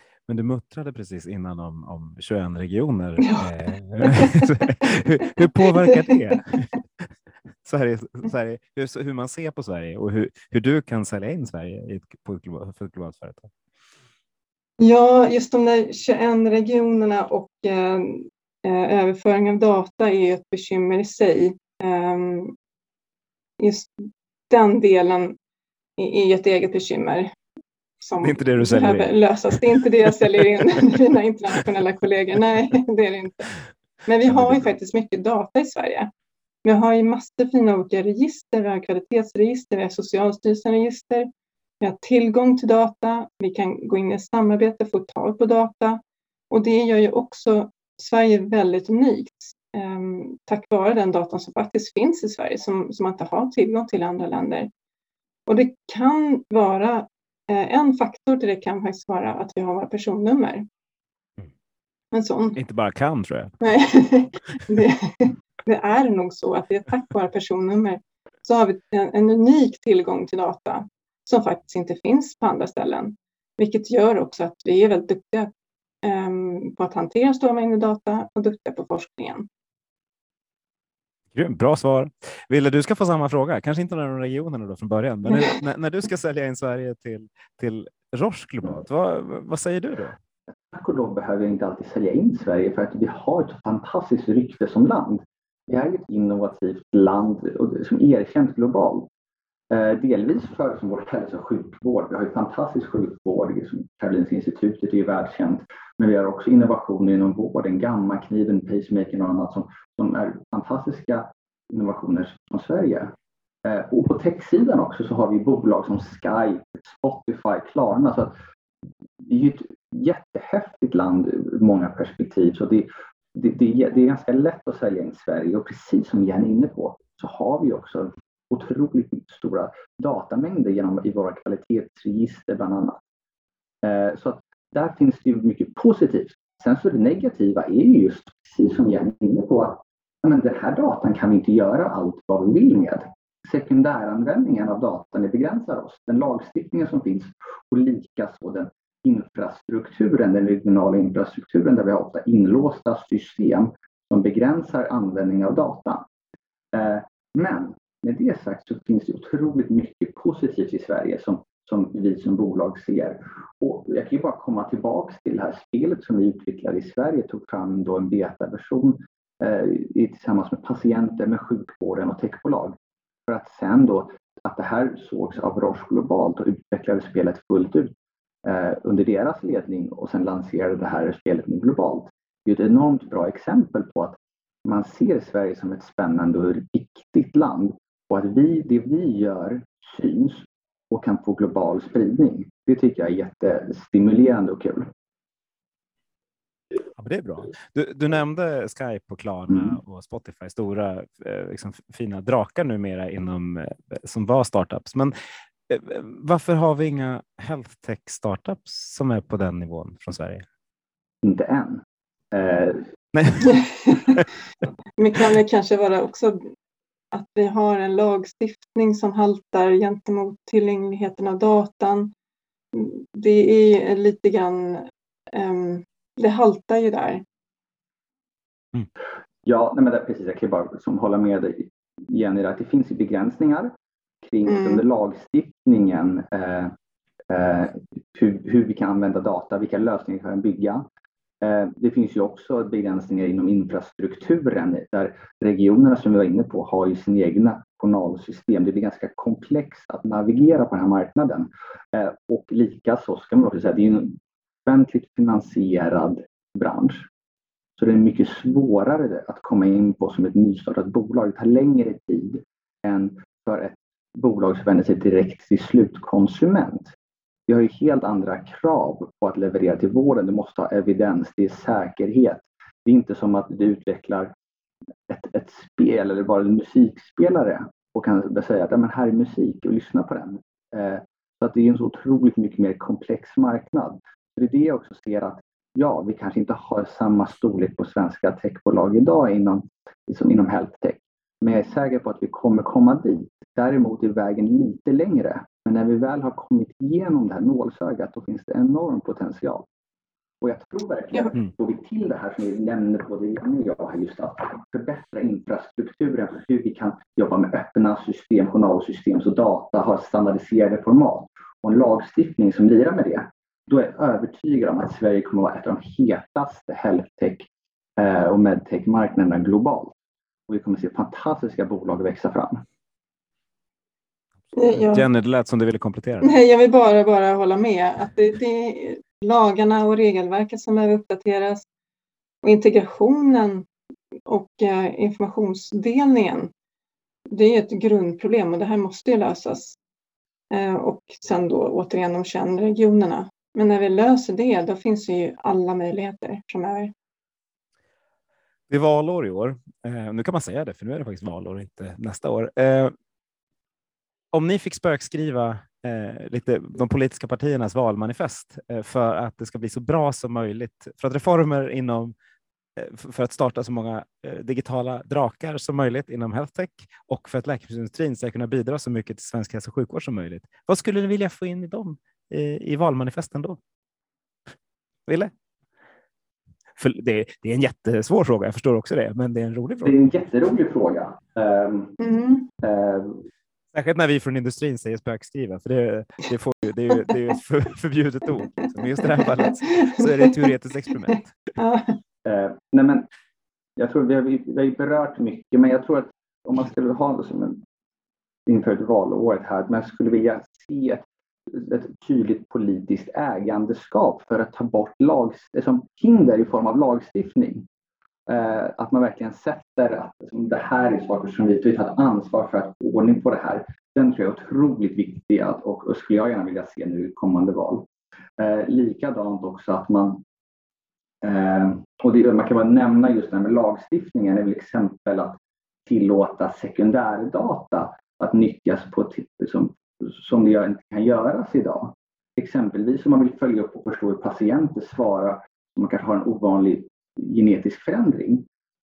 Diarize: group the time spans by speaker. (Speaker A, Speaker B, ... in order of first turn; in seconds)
Speaker A: 0.3-7.0, 7.6-13.5, 28.2-29.8, 62.6-63.5, 81.3-90.2, 197.0-205.1, 205.7-210.4, 213.1-214.2, 324.7-326.4, 348.7-352.9, 354.3-362.1, 362.8-373.6, 375.1-375.3, 376.8-379.9, 383.7-391.4
Speaker B: 3.2-3.5, 4.0-4.7, 5.2-6.6, 14.8-22.6, 23.6-25.4, 26.0-27.3, 28.0-33.5, 34.1-36.1, 36.6-41.3, 41.8-46.0, 46.5-54.7, 55.5-60.6, 62.1-62.6, 63.6-75.5, 76.0-79.5, 213.4-214.2, 215.0-216.5, 217.1-222.1, 222.7-227.2, 234.4-234.8, 324.6-325.1, 326.2-331.6, 332.4-333.7, 334.3-336.5, 337.3-339.8, 340.5-346.9, 382.0-382.5, 389.0-390.5, 391.1-392.0
Speaker C: 90.7-99.1, 99.7-118.3, 119.2-133.0, 133.8-156.1, 156.7-172.8, 173.3-177.9, 178.4-194.9, 211.2-212.9, 229.4-233.7, 234.2-236.7, 237.3-240.8, 241.4-257.1, 257.8-266.9, 267.5-274.3, 275.1-299.7, 300.4-319.9, 320.5-322.6, 379.8-381.9, 382.6-383.3, 392.2-393.1, 393.8-397.6, 398.4-407.7, 408.3-417.9, 418.4-420.2, 421.2-438.4